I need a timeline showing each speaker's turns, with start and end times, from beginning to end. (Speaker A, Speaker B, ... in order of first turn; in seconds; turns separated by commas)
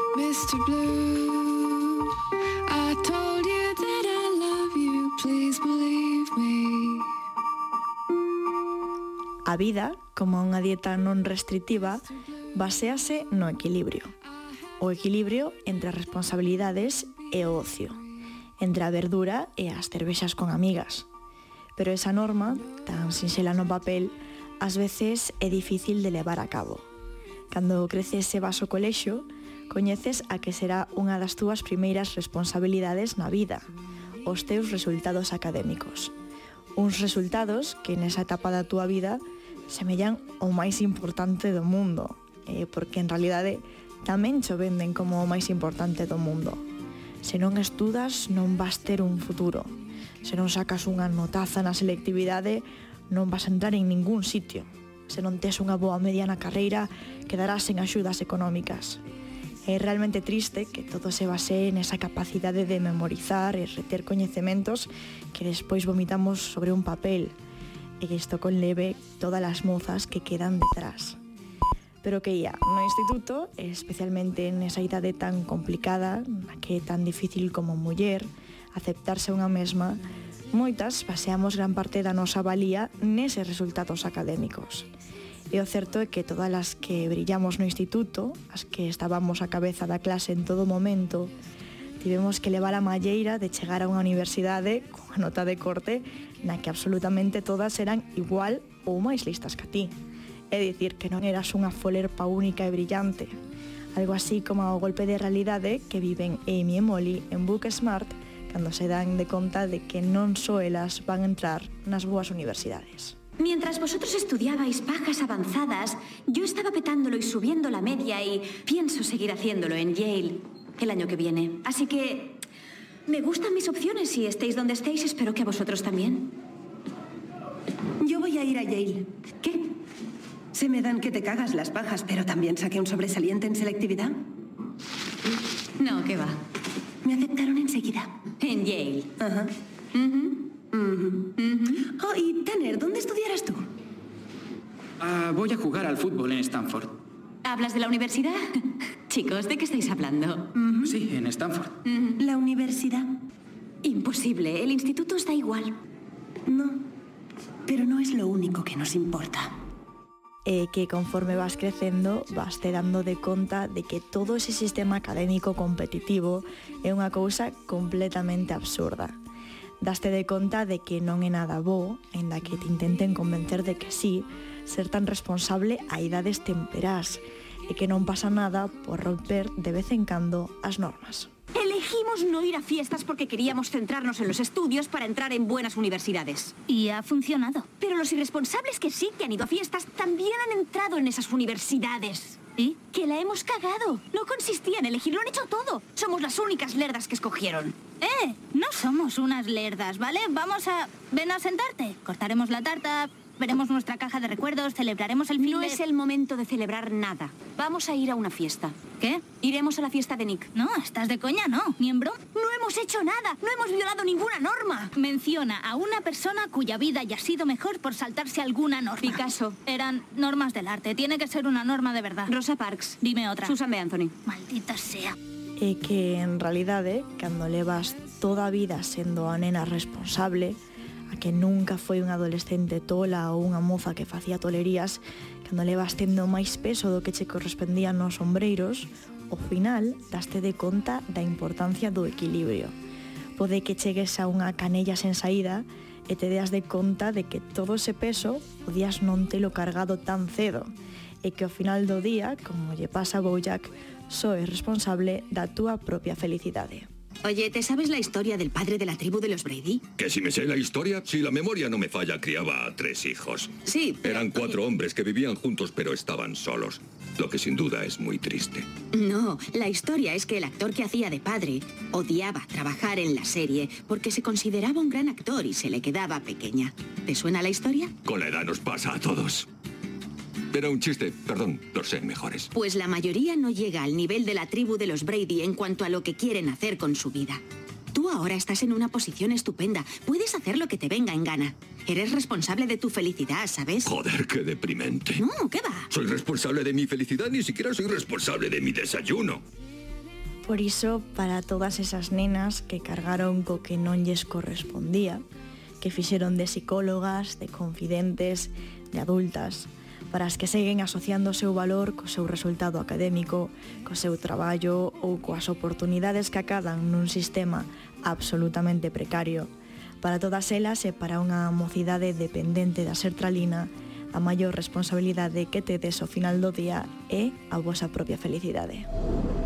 Speaker A: 0.1-1.8, Speaker A: 2.7-7.0, Speaker B: 9.4-12.0, Speaker B: 12.5-14.1, Speaker B: 14.8-18.0, Speaker B: 18.6-21.1, Speaker B: 21.8-26.9, Speaker B: 27.5-33.7, Speaker B: 34.2-36.1, Speaker B: 36.8-46.6, Speaker B: 47.2-59.0, Speaker B: 59.6-67.3, Speaker B: 68.0-71.2, Speaker B: 72.0-84.9, Speaker B: 85.5-91.3, Speaker B: 92.0-99.9, Speaker B: 100.5-103.3, Speaker B: 103.9-113.1, Speaker C: 113.4-122.4, Speaker C: 123.1-126.3, Speaker D: 128.0-129.1, Speaker D: 130.5-134.2, Speaker C: 135.8-136.4, Speaker D: 137.0-138.1, Speaker C: 138.4-139.1, Speaker D: 139.2-139.5, Speaker C: 139.9-140.4, Speaker C: 141.3-141.8, Speaker D: 141.9-143.7, Speaker E: 145.0-146.9, Speaker C: 147.4-148.4, Speaker C: 149.1-150.5, Speaker D: 150.6-150.8, Speaker E: 150.8-151.8, Speaker D: 152.2-153.1, Speaker C: 153.8-155.8, Speaker D: 156.5-156.8, Speaker D: 157.7-159.5, Speaker B: 160.4-169.2, Speaker B: 169.8-181.3, Speaker C: 181.5-186.5, Speaker F: 186.7-187.6, Speaker C: 187.8-197.8, Speaker F: 198.0-205.8, Speaker C: 205.3-208.8, Speaker C: 209.3-210.5, Speaker F: 210.5-212.2, Speaker C: 212.3-214.9, Speaker F: 214.9-222.3, Speaker C: 219.0-219.6, Speaker C: 222.3-224.1, Speaker F: 223.0-223.5, Speaker F: 224.2-225.1, Speaker B: 225.6-230.6, Speaker B: 231.1-242.7, Speaker B: 243.4-250.7, Speaker B: 251.2-256.9, Speaker G: 257.2-259.9, Speaker H: 260.0-268.7, Speaker G: 263.6-264.6, Speaker G: 268.9-277.9, Speaker H: 278.0-279.4, Speaker H: 280.5-282.5, Speaker G: 282.5-287.4, Speaker G: 287.9-293.9, Speaker H: 293.8-295.2, Speaker G: 295.2-295.9, Speaker H: 295.9-299.4, Speaker B: 300.4-305.2, Speaker B: 305.8-319.5, Speaker B: 320.0-328.9